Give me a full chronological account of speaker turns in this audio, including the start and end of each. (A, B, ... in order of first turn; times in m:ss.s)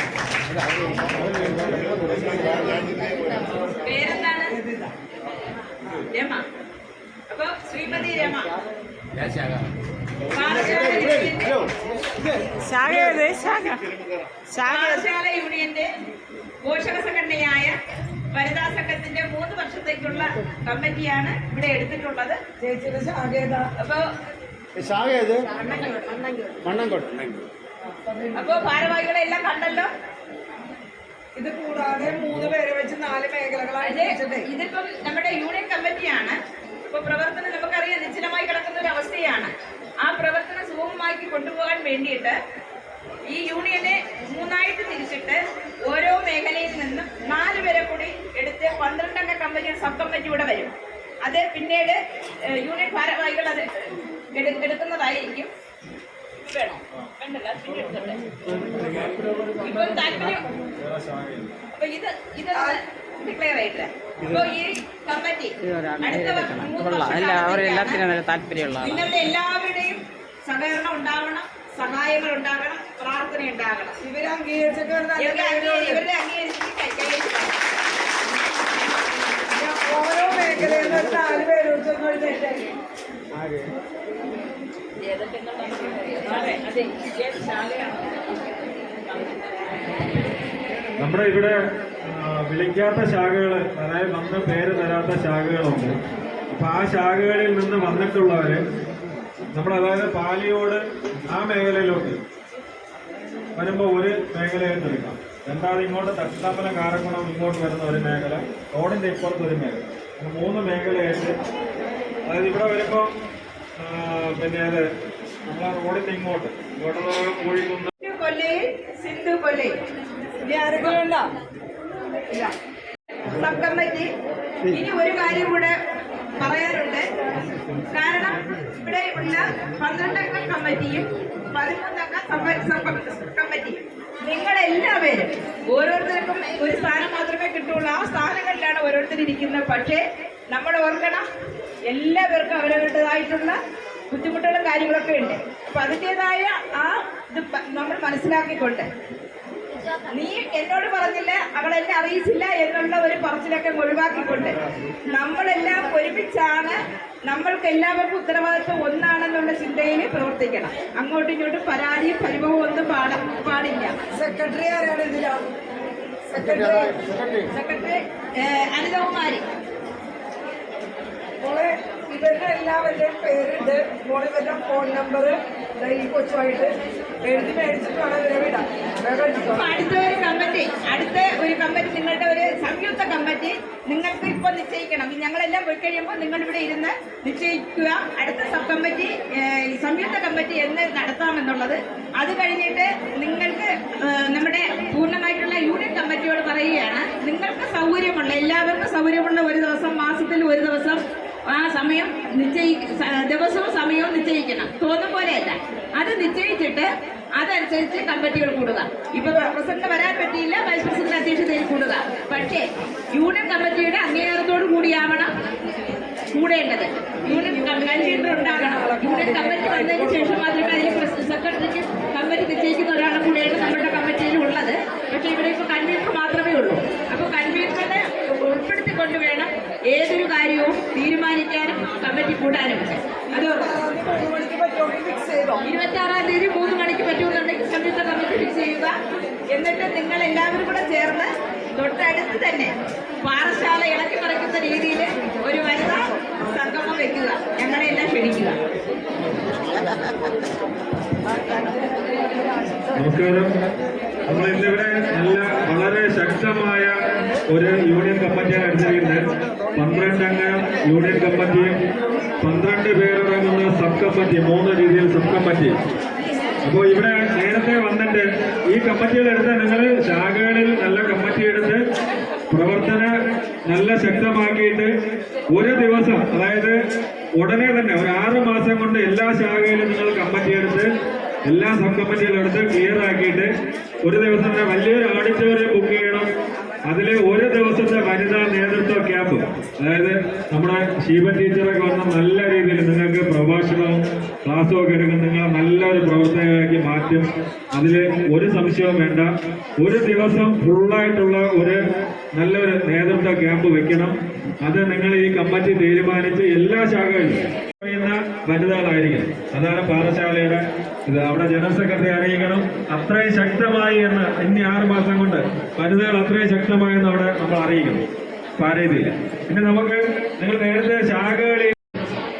0:01.2-0:02.6 A
0:03.8-0:04.6 B
0:04.6-0:04.9 C
0:05.9-0:06.4 B
0:07.3-0:08.6 B
0:10.3-0:11.6 B
0:10.4-0:11.7 A
0:12.5-0:13.8 D
0:14.5-0:15.0 D
0:14.6-0:15.9 B
0:16.6-0:17.8 B
0:18.3-0:22.4 B
0:22.6-0:23.7 C
0:23.8-0:24.1 B
0:24.8-0:25.6 A
0:25.6-0:26.6 D
0:26.6-0:27.4 A
0:28.0-0:28.5 C
0:28.4-0:29.9 B
0:31.4-0:34.5 C
0:33.8-0:42.4 B
0:43.3-0:55.5 B
0:56.4-0:58.2 B
0:58.6-0:59.5 E
0:59.6-1:00.5 B
1:00.8-1:01.5 E
1:01.7-1:08.1 B
1:05.6-1:09.0 D
1:08.8-1:14.0 B
1:14.0-1:16.0 C
1:15.2-1:17.6 B
1:19.5-1:22.7 C
1:25.0-1:28.3 B
1:29.1-1:29.9 B
1:31.0-1:36.0 E
1:36.5-1:38.6 E
1:39.5-1:42.2 E
1:43.6-1:51.4 E
1:52.3-1:53.1 E
1:53.8-1:54.9 E
1:55.5-1:57.9 E
1:58.0-1:59.7 B
2:00.4-2:01.3 C
2:02.3-2:02.5 C
2:03.3-2:04.1 B
2:04.7-2:05.8 B
2:06.4-2:07.1 B
2:07.9-2:21.2 B
2:21.8-2:23.6 B
2:24.1-2:28.9 B
2:30.1-2:34.6 B
2:34.2-2:34.9 E
2:35.1-2:36.8 B
2:37.3-2:43.9 B
2:44.1-2:45.4 C
2:46.3-2:47.0 C
2:46.4-2:47.5 A
2:47.5-2:49.4 B
2:51.4-2:59.7 C
2:59.5-3:35.3 B
3:36.3-3:53.7 B
3:37.2-3:41.1 C
3:53.3-3:55.6 C
3:55.6-3:58.9 B
3:59.5-4:08.6 B
4:13.0-4:13.5 E
4:14.3-4:16.9 E
4:17.5-4:19.2 E
4:19.8-4:21.7 E
4:22.4-4:25.8 E
4:26.6-4:31.8 E
4:32.5-4:33.1 E
4:33.7-4:34.9 E
4:35.5-4:36.8 E
4:37.4-4:40.9 E
4:41.5-4:43.5 E
4:44.0-4:46.3 E
4:46.9-5:01.8 E
5:02.4-5:18.0 E
5:18.6-5:21.8 E